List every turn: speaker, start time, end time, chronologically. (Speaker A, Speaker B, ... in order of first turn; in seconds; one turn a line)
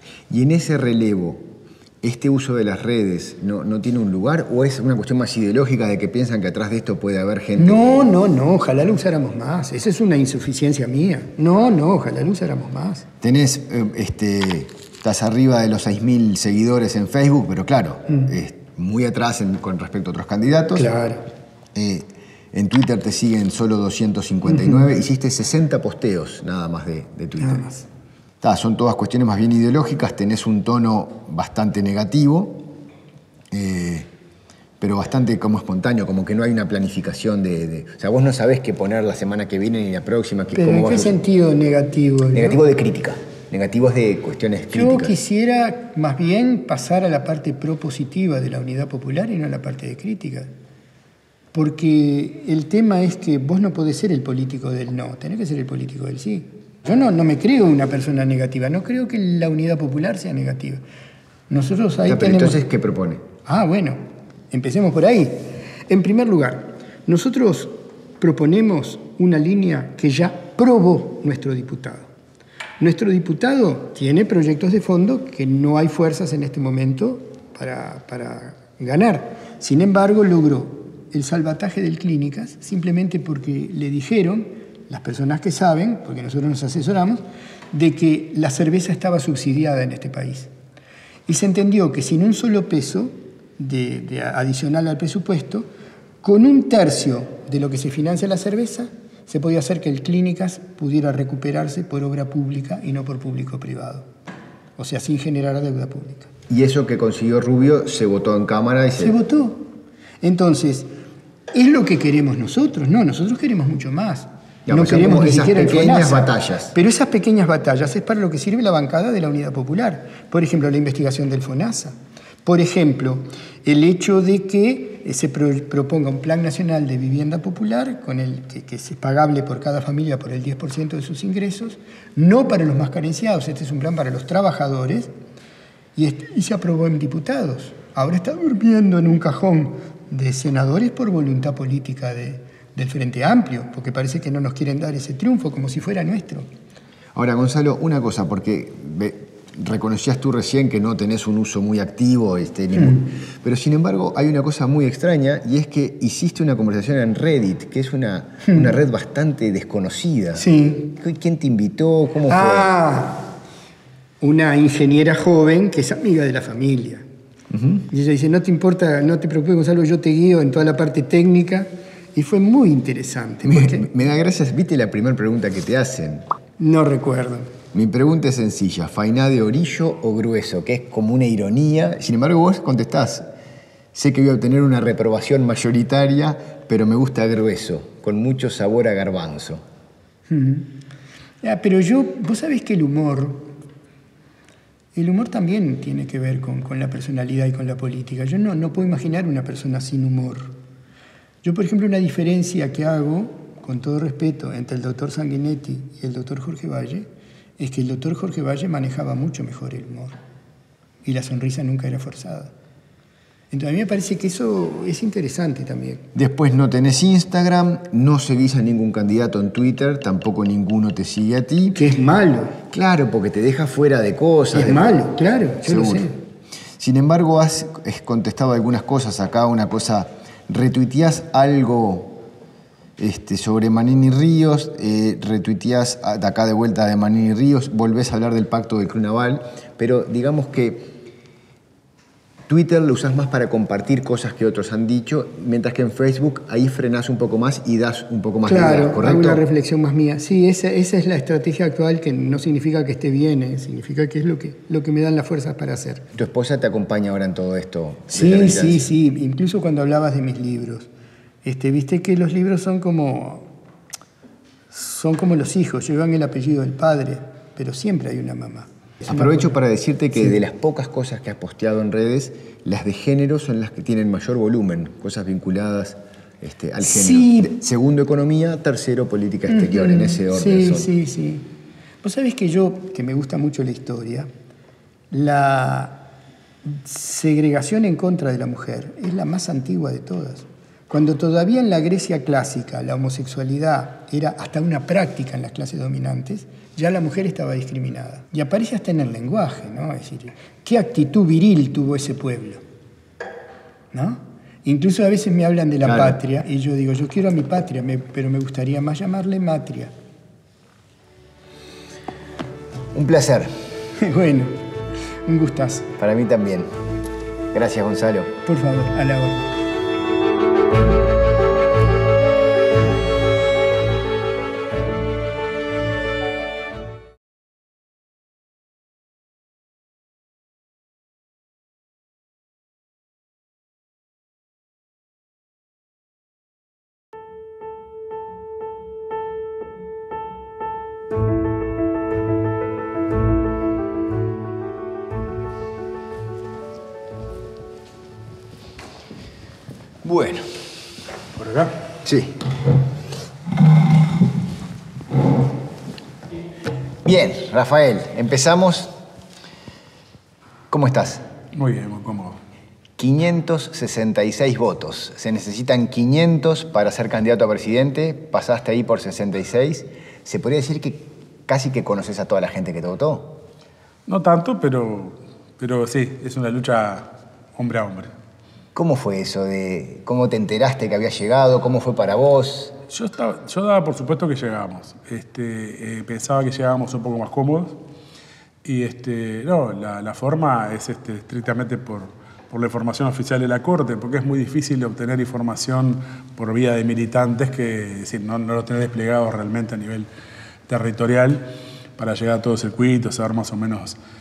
Speaker A: 0.3-1.5
Speaker A: 2.0-8.0
Speaker B: 7.6-13.1
Speaker A: 13.2-20.9
Speaker B: 20.8-21.3
Speaker A: 21.8-27.7
Speaker B: 27.4-27.8
Speaker A: 28.4-32.7
Speaker A: 33.5-34.1
Speaker A: 34.8-41.1
Speaker B: 40.5-42.6
Speaker A: 42.3-45.2
Speaker B: 44.7-50.5
Speaker B: 51.5-60.8
Speaker B: 61.5-62.6
Speaker A: 62.1-63.2
Speaker B: 63.5-72.1
Speaker B: 72.8-90.5
Speaker B: 91.3-95.7
Speaker B: 96.2-104.1
Speaker B: 104.8-106.3
Speaker A: 106.5-109.2
Speaker B: 109.0-109.7
Speaker B: 110.2-110.9
Speaker B: 111.5-135.1
Speaker A: 114.7-116.7
Speaker B: 136.0-146.5
Speaker A: 147.1-162.7
Speaker B: 158.5-158.7
Speaker B: 160.4-160.9
Speaker B: 162.3-163.3
Speaker B: 164.2-167.0
Speaker B: 167.8-173.9
Speaker A: 173.4-176.2
Speaker B: 176.6-177.5
Speaker A: 177.7-183.3
Speaker A: 183.9-189.6
Speaker B: 190.3-190.7
Speaker B: 191.4-193.5
Speaker B: 194.9-200.5
Speaker B: 201.4-207.1
Speaker B: 207.6-210.2
Speaker B: 211.0-212.5
Speaker B: 213.5-216.1
Speaker A: 216.2-221.8
Speaker B: 221.8-222.6
Speaker A: 222.7-225.1
Speaker B: 224.5-226.2
Speaker A: 225.6-226.1
Speaker A: 226.8-232.2
Speaker A: 233.0-240.9
Speaker A: 242.5-249.4
Speaker B: 248.5-256.1
Speaker A: 256.1-258.9
Speaker B: 258.1-260.9
Speaker B: 261.4-263.5
Speaker B: 264.7-269.2
Speaker A: 269.1-280.9
Speaker B: 276.8-277.5
Speaker B: 279.5-281.5
Speaker B: 282.0-284.3
Speaker B: 285.1-286.0
Speaker B: 286.6-302.6
Speaker B: 303.9-309.9
Speaker A: 305.8-306.2
Speaker A: 312.9-313.5
Speaker B: 314.0-314.6
Speaker B: 315.2-315.9
Speaker A: 316.0-316.7
Speaker A: 317.5-318.3
Speaker B: 318.5-319.5
Speaker A: 350.0-350.5
Speaker C: 351.4-351.8
Speaker A: 352.0-352.4
Speaker A: 357.1-358.9
Speaker A: 360.7-361.2
Speaker C: 361.5-362.4
Speaker A: 363.0-373.4
Speaker C: 374.1-378.1
Speaker A: 378.7-382.8
Speaker C: 382.9-387.8
Speaker C: 388.6-400.1
Speaker C: 400.7-401.4
Speaker C: 402.0-404.0